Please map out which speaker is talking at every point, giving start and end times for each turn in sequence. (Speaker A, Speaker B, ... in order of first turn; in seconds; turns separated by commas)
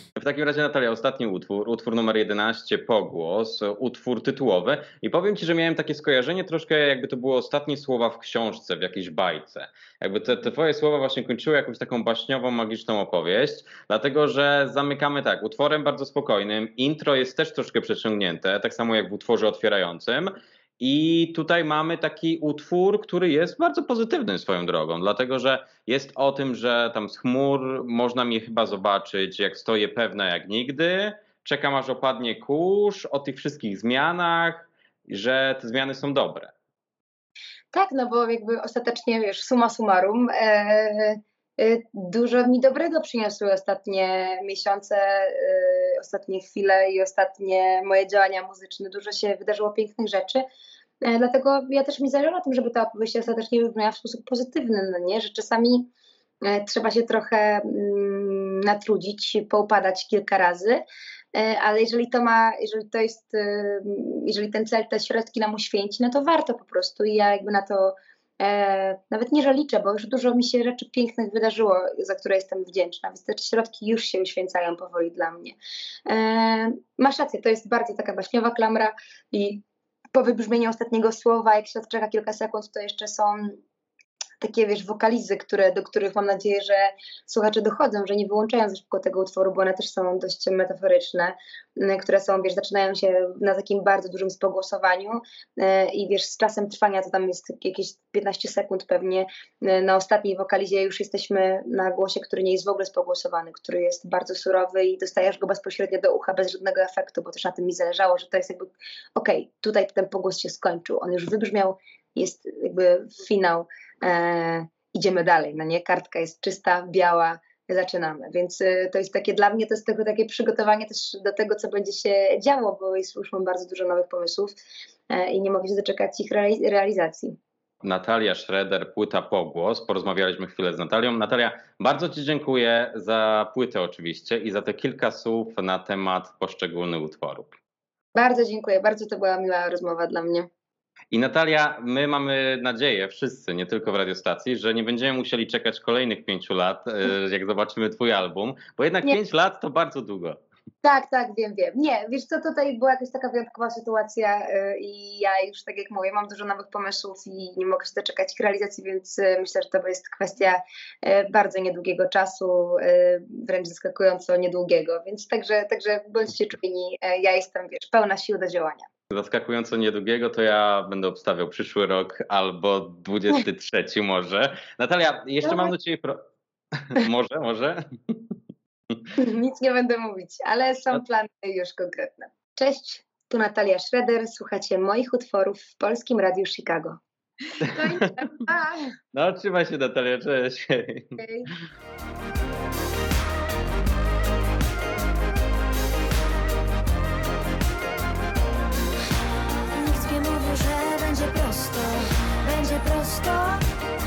Speaker A: 0.1-36.5, Speaker B: 37.7-50.4, Speaker B: 51.0-55.9, Speaker B: 56.4-60.8, Speaker B: 61.3-83.6, Speaker B: 84.4-124.5, Speaker B: 125.1-127.4, Speaker A: 127.8-137.5, Speaker B: 138.1-140.5, Speaker A: 141.1-150.4, Speaker B: 150.8-168.9, Speaker A: 169.1-176.2, Speaker B: 175.4-175.7, Speaker A: 176.7-178.3, Speaker B: 179.2-187.0, Speaker A: 187.6-188.3, Speaker B: 187.6-188.9, Speaker A: 189.1-191.2, Speaker B: 191.2-191.5, Speaker C: 199.7-203.6